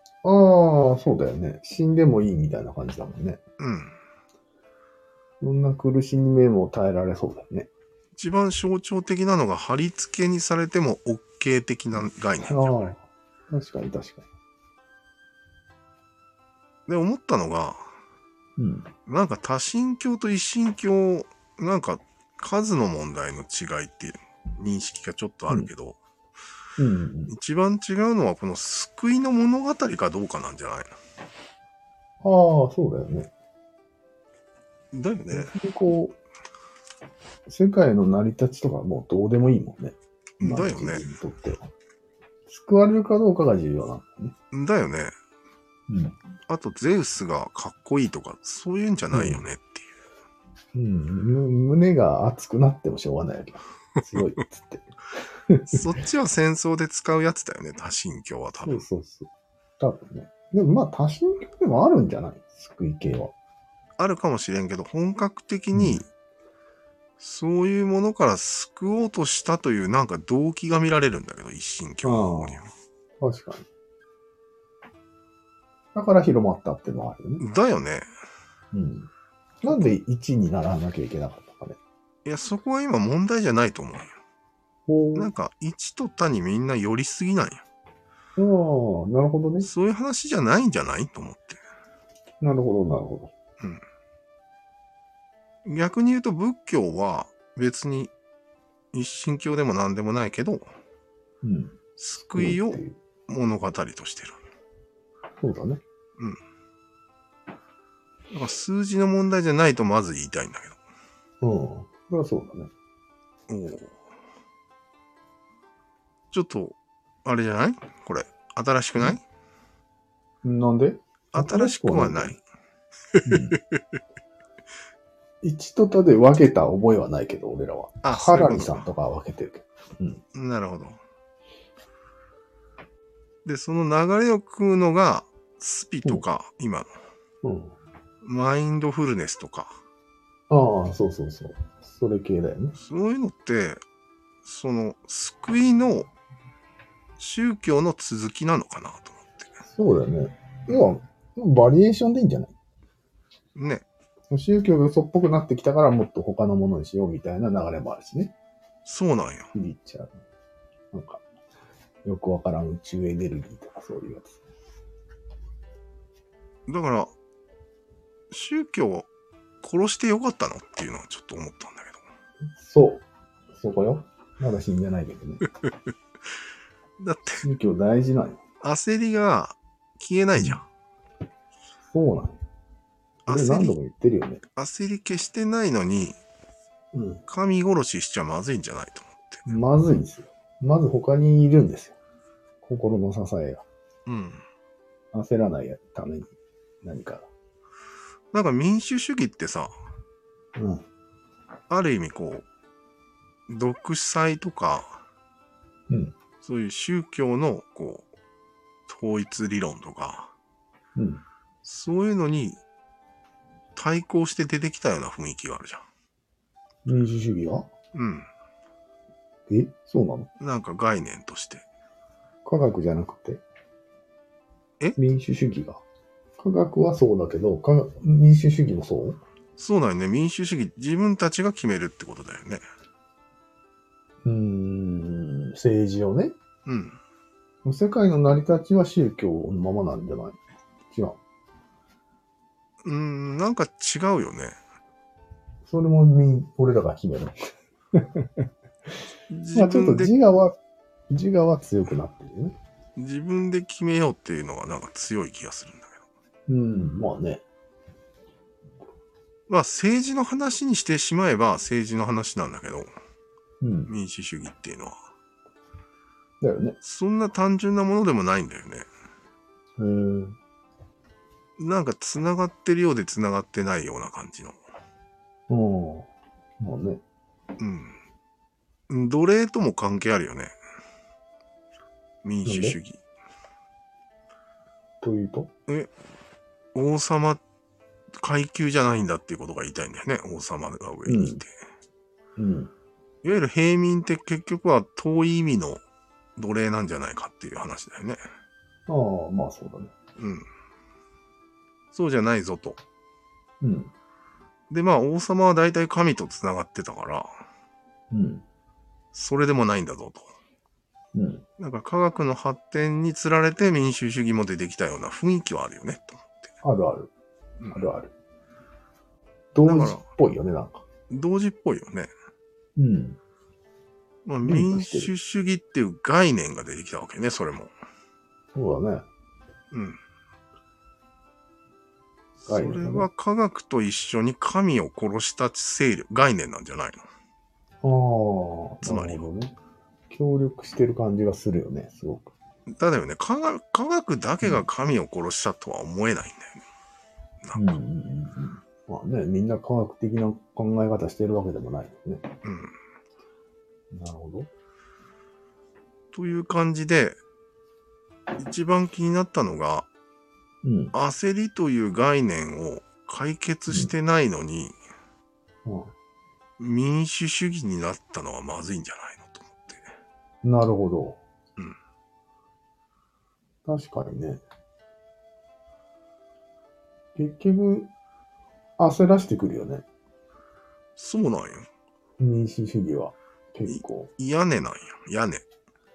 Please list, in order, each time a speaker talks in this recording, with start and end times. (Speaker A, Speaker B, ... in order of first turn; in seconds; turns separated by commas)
Speaker A: 0.2-3.4, Speaker B: 3.6-4.0, Speaker A: 5.4-7.7, Speaker B: 8.2-12.9, Speaker A: 12.4-14.2, Speaker B: 16.9-17.9, Speaker A: 18.6-18.9, Speaker B: 19.1-26.0, Speaker A: 26.8-27.3, Speaker B: 27.3-31.0, Speaker A: 32.2-33.3, Speaker B: 34.9-35.5, Speaker A: 35.3-36.1, Speaker A: 37.5-41.6, Speaker B: 40.4-41.0, Speaker A: 42.5-44.3, Speaker B: 44.5-45.1, Speaker A: 45.9-46.1, Speaker B: 46.5-49.9, Speaker A: 49.1-49.4, Speaker A: 50.7-54.9, Speaker A: 55.5-55.7, Speaker B: 55.7-58.8, Speaker A: 58.6-59.3, Speaker A: 59.8-63.3, Speaker B: 64.0-66.1, Speaker A: 65.7-66.0, Speaker B: 67.2-72.7, Speaker A: 72.0-72.7, Speaker A: 73.2-73.6, Speaker A: 75.9-77.4, Speaker B: 77.4-78.1, Speaker A: 78.7-79.1, Speaker A: 79.6-81.8, Speaker B: 79.6-79.9, Speaker B: 82.2-84.1, Speaker A: 84.9-85.3, Speaker B: 85.1-87.6, Speaker A: 88.4-89.7, Speaker B: 89.6-91.6, Speaker A: 92.4-93.3, Speaker B: 95.6-98.1, Speaker B: 98.9-100.7, Speaker A: 101.4-101.8, Speaker B: 102.0-104.4, Speaker A: 102.3-103.0, Speaker A: 105.4-105.8, Speaker B: 108.3-110.8, Speaker A: 111.4-112.7, Speaker B: 113.5-113.9, Speaker B: 116.3-119.2, Speaker A: 120.4-122.3, Speaker B: 121.3-122.4, Speaker A: 123.2-123.6, Speaker A: 125.4-130.2, Speaker B: 128.0-128.9, Speaker B: 130.3-131.0, Speaker B: 133.4-136.9, Speaker A: 137.4-137.7, Speaker B: 138.2-139.8, Speaker A: 140.5-142.7, Speaker B: 142.8-143.8, Speaker B: 144.4-146.1, Speaker B: 147.2-149.5, Speaker A: 149.7-152.5, Speaker B: 153.5-153.8, Speaker A: 154.3-158.3, Speaker B: 158.8-159.5, Speaker A: 159.5-160.2, Speaker A: 160.9-161.2, Speaker A: 162.0-164.4, Speaker B: 166.7-167.1, Speaker B: 168.3-169.1, Speaker B: 169.6-172.0, Speaker A: 172.5-173.0, Speaker A: 173.5-175.4, Speaker B: 177.0-177.4, Speaker A: 177.4-178.4, Speaker B: 178.6-180.6, Speaker A: 181.9-182.4, Speaker B: 183.2-183.7, Speaker A: 183.3-184.4, Speaker B: 184.6-186.2, Speaker A: 186.9-187.2, Speaker B: 187.3-189.5, Speaker A: 189.4-191.9, Speaker A: 192.6-193.6, Speaker B: 194.1-194.4, Speaker A: 195.1-196.3, Speaker A: 196.8-197.3, Speaker B: 198.3-199.7, Speaker A: 200.6-200.8, Speaker B: 201.7-202.4, Speaker B: 203.5-205.0, Speaker B: 206.4-208.1, Speaker B: 208.9-210.3, Speaker A: 210.9-211.2, Speaker B: 211.6-212.6, Speaker B: 213.8-215.8, Speaker A: 216.8-217.7, Speaker B: 217.9-218.3, Speaker A: 219.5-220.3, Speaker B: 220.4-221.6, Speaker A: 222.4-223.4, Speaker A: 224.9-225.8, Speaker A: 226.4-229.2, Speaker B: 229.6-232.6, Speaker A: 234.2-236.3, Speaker B: 236.7-237.0, Speaker A: 237.6-240.4, Speaker A: 240.9-241.2, Speaker B: 242.8-244.6, Speaker A: 245.6-247.3, Speaker A: 248.0-248.3, Speaker B: 249.3-250.1, Speaker A: 249.5-250.6, Speaker A: 251.1-252.6, Speaker B: 252.9-256.0, Speaker A: 256.5-257.4, Speaker B: 259.5-262.9, Speaker A: 263.6-263.9, Speaker B: 263.9-264.9, Speaker A: 266.4-266.8, Speaker B: 266.8-268.9, Speaker A: 269.8-270.4, Speaker B: 271.6-274.6, Speaker A: 275.5-276.1, Speaker A: 276.6-277.0, Speaker B: 277.6-278.0, Speaker B: 278.9-280.5, Speaker B: 282.2-283.0, Speaker A: 282.4-282.8, Speaker A: 285.0-285.5, Speaker B: 286.7-287.4, Speaker B: 288.2-291.5, Speaker A: 291.1-291.4, Speaker A: 292.4-292.7, Speaker B: 293.2-295.8, Speaker B: 296.4-298.2, Speaker A: 298.9-299.9, Speaker B: 300.2-300.4, Speaker B: 301.9-302.8, Speaker A: 303.6-303.9, Speaker B: 304.7-307.3, Speaker A: 308.1-308.4, Speaker B: 309.1-310.3, Speaker A: 311.1-311.4, Speaker B: 311.6-316.4, Speaker A: 316.6-317.1, Speaker B: 317.6-317.9, Speaker A: 317.7-318.1, Speaker A: 319.5-320.8, Speaker B: 319.6-320.0, Speaker B: 321.1-322.1, Speaker A: 322.8-323.2, Speaker B: 324.2-327.7, Speaker A: 324.4-325.1, Speaker A: 328.5-329.0, Speaker B: 329.7-330.0, Speaker B: 332.4-337.1, Speaker A: 332.5-333.1, Speaker A: 337.8-339.5, Speaker B: 338.8-339.3, Speaker A: 340.1-342.3, Speaker B: 342.8-346.6, Speaker B: 347.4-347.8, Speaker A: 347.5-352.3, Speaker B: 352.4-352.7, Speaker A: 353.9-354.5, Speaker B: 356.1-357.2, Speaker B: 358.4-359.9, Speaker A: 360.6-360.9, Speaker B: 360.9-364.8, Speaker A: 365.6-365.9, Speaker B: 366.6-369.9, Speaker A: 370.4-371.2, Speaker A: 373.6-374.4, Speaker A: 377.1-377.9, Speaker A: 378.8-379.8, Speaker B: 381.0-381.7, Speaker A: 382.2-384.1, Speaker B: 383.6-385.4